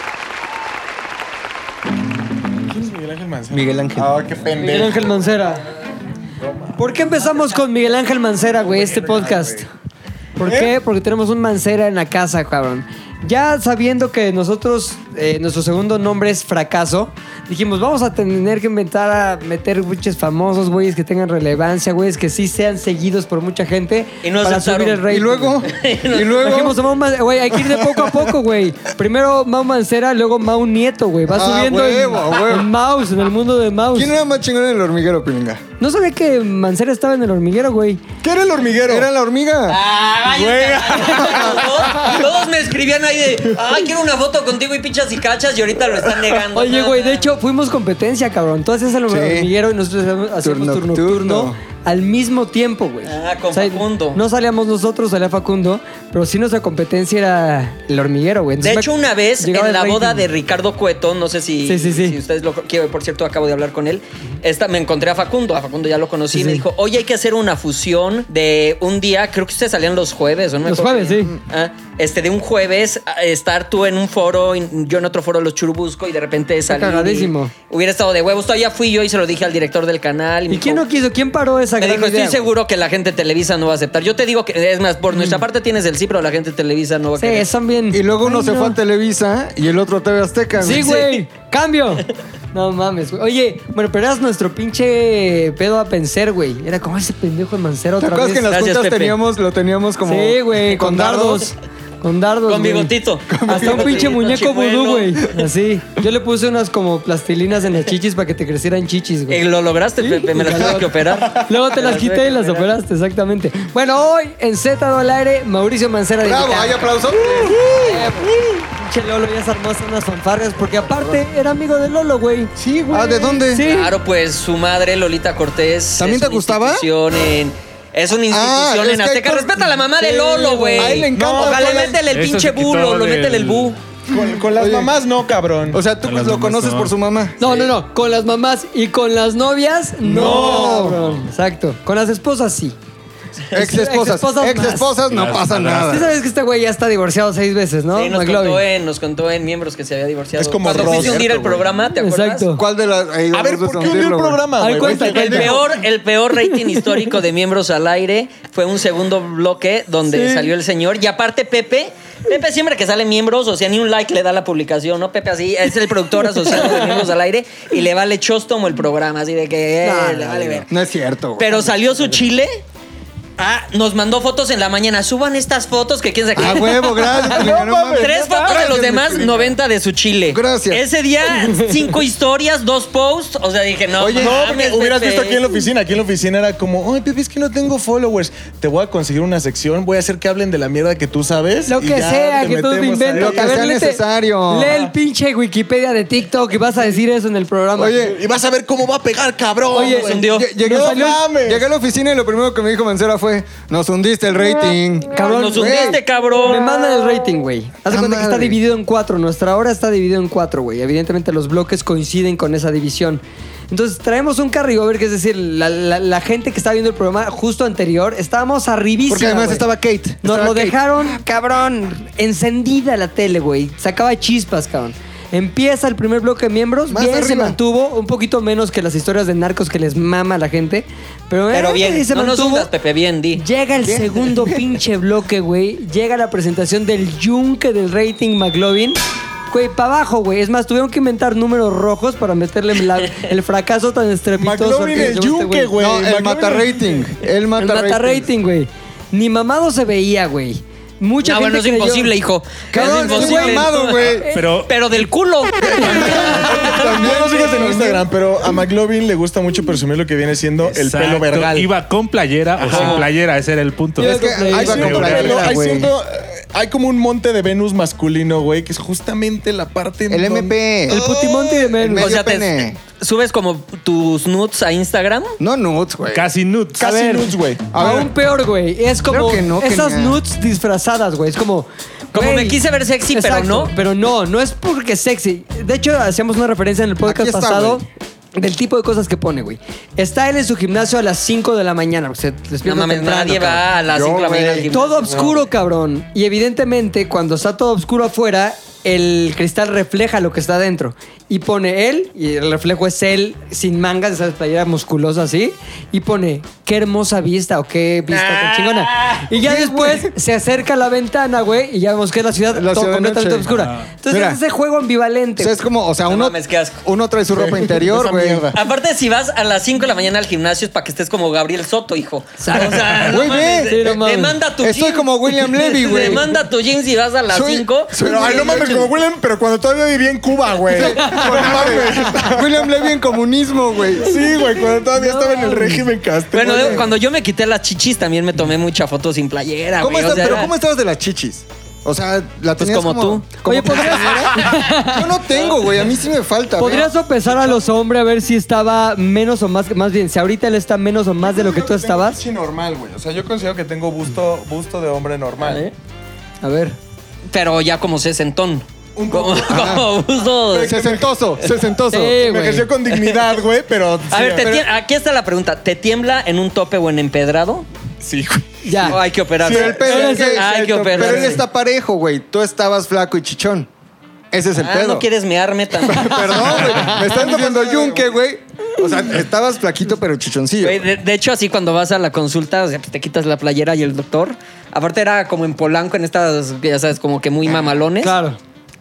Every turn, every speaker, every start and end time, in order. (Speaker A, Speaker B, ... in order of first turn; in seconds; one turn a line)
Speaker A: 2.7-5.2
Speaker B: 4.6-5.6
Speaker A: 6.4-6.8
Speaker B: 6.8-9.7
Speaker A: 8.5-9.7
Speaker B: 10.4-25.6
Speaker A: 10.4-10.7
Speaker C: 24.2-26.6
Speaker D: 25.1-26.8
Speaker B: 26.3-34.1
Speaker D: 27.5-28.3
Speaker D: 31.3-32.7
Speaker D: 33.9-35.6
Speaker B: 35.8-38.0
Speaker A: 38.2-39.1
Speaker D: 38.9-39.8
Speaker C: 39.7-47.3
Speaker A: 40.3-42.3
Speaker D: 41.0-41.7
Speaker B: 46.5-58.9
Speaker D: 49.1-49.5
Speaker D: 50.4-51.6
Speaker C: 53.0-54.2
Speaker C: 58.6-80.8
Speaker B: 59.4-60.3
Speaker B: 61.6-62.2
Speaker B: 66.3-66.6
Speaker B: 70.7-71.4
Speaker B: 76.7-77.5
Speaker B: 80.5-82.4
Speaker C: 81.8-87.5
Speaker B: 85.2-85.4
Speaker B: 87.2-88.8
Speaker D: 87.9-91.0
Speaker B: 90.6-98.5
Speaker C: 90.7-91.2
Speaker D: 98.0-101.5
Speaker C: 98.5-99.2
Speaker B: 100.0-102.9
Speaker C: 102.5-105.4
Speaker D: 103.3-104.1
Speaker B: 103.5-109.4
Speaker C: 109.3-112.7
Speaker B: 110.0-122.5
Speaker A: 111.2-111.4
Speaker D: 116.2-118.1
Speaker A: 117.4-117.8
Speaker A: 122.6-123.4
Speaker D: 122.9-123.7
Speaker B: 123.5-123.9
Speaker C: 123.6-133.8
Speaker D: 126.0-126.9
Speaker D: 128.3-129.7
Speaker B: 130.0-131.1
Speaker D: 130.8-132.0
Speaker A: 131.1-131.9
Speaker E: 132.1-133.7
Speaker A: 134.1-135.8
Speaker D: 134.3-134.9
Speaker D: 135.7-137.7
Speaker E: 136.0-136.9
Speaker B: 137.4-142.8
Speaker D: 140.0-141.0
Speaker A: 140.1-140.9
Speaker D: 143.5-146.2
Speaker B: 143.5-144.9
Speaker E: 145.1-146.0
Speaker B: 145.8-148.6
Speaker C: 147.9-152.5
Speaker A: 150.4-151.7
Speaker D: 150.7-151.2
Speaker B: 151.9-152.6
Speaker D: 152.5-155.6
Speaker A: 153.3-155.7
Speaker B: 154.6-155.6
Speaker C: 155.1-170.7
Speaker B: 156.5-156.8
Speaker B: 160.1-160.5
Speaker B: 169.8-170.7
Speaker D: 170.7-171.7
Speaker C: 171.4-172.6
Speaker C: 173.4-185.6
Speaker D: 176.3-179.4
Speaker A: 177.3-179.5
Speaker D: 180.3-180.8
Speaker B: 181.4-181.8
Speaker D: 184.0-184.4
Speaker A: 184.2-193.8
Speaker B: 191.7-198.0
Speaker D: 193.2-194.7
Speaker A: 194.7-194.9
Speaker D: 197.8-198.2
Speaker A: 198.0-201.7
Speaker B: 199.7-201.2
Speaker C: 199.8-200.5
Speaker D: 200.3-206.0
Speaker B: 205.1-205.8
Speaker C: 205.2-206.8
Speaker B: 206.4-219.7
Speaker D: 207.9-208.6
Speaker D: 219.1-221.2
Speaker B: 220.2-232.7
Speaker D: 226.9-227.6
Speaker C: 231.5-233.4
Speaker B: 233.4-239.0
Speaker D: 233.8-234.6
Speaker B: 239.5-245.8
Speaker A: 244.4-246.9
Speaker D: 245.8-248.3
Speaker B: 247.6-252.1
Speaker C: 251.2-254.0
Speaker D: 252.7-254.3
Speaker B: 252.7-254.5
Speaker E: 254.3-254.8
Speaker C: 254.7-256.2
Speaker D: 255.6-258.1
Speaker A: 255.6-261.7
Speaker E: 260.7-265.5
Speaker A: 262.6-263.1
Speaker C: 262.6-263.1
Speaker D: 264.0-265.9
Speaker B: 264.0-265.1
Speaker A: 264.4-271.8
Speaker D: 270.1-271.0
Speaker B: 270.9-272.1
Speaker D: 271.8-272.8
Speaker C: 271.9-275.4
Speaker D: 275.4-276.3
Speaker E: 276.1-276.8
Speaker A: 276.8-277.7
Speaker B: 276.8-282.6
Speaker D: 277.7-278.1
Speaker D: 279.1-280.2
Speaker C: 282.1-283.7
Speaker B: 283.1-293.6
Speaker D: 287.1-287.9
Speaker C: 292.6-295.3
Speaker D: 293.9-294.7
Speaker B: 294.7-315.6
Speaker C: 308.1-309.2
Speaker D: 309.3-310.1
Speaker D: 312.5-314.4
Speaker E: 313.5-313.9
Speaker D: 315.4-318.6
Speaker C: 316.1-316.8
Speaker A: 317.3-318.6
Speaker C: 318.5-328.0
Speaker B: 322.4-323.0
Speaker D: 322.9-323.9
Speaker B: 323.6-324.4
Speaker D: 324.6-326.4
Speaker D: 327.3-328.9
Speaker A: 328.0-332.7
Speaker D: 330.7-334.2
Speaker B: 330.8-331.5
Speaker A: 334.0-336.9
Speaker B: 335.0-335.9
Speaker C: 336.3-340.5
Speaker D: 336.6-336.8
Speaker D: 339.8-346.9
Speaker C: 342.6-344.6
Speaker B: 343.5-345.1
Speaker B: 346.6-352.2
Speaker A: 347.3-347.7
Speaker A: 351.2-355.7
Speaker B: 356.4-356.8
Speaker C: 357.3-360.8
Speaker A: 359.0-359.8
Speaker D: 359.5-359.9
Speaker A: 360.5-361.1
Speaker D: 360.6-362.2
Speaker B: 361.9-362.7
Speaker A: 362.2-364.6
Speaker C: 362.9-363.4
Speaker C: 364.1-367.7
Speaker A: 368.0-368.5
Speaker B: 368.6-369.0
Speaker C: 368.9-371.4
Speaker D: 369.4-373.7
Speaker A: 369.4-369.8
Speaker B: 369.9-371.4
Speaker D: 374.3-375.1
Speaker C: 374.6-376.8
Speaker D: 375.9-380.9
Speaker A: 376.9-378.1
Speaker C: 380.6-388.1
Speaker B: 388.0-388.4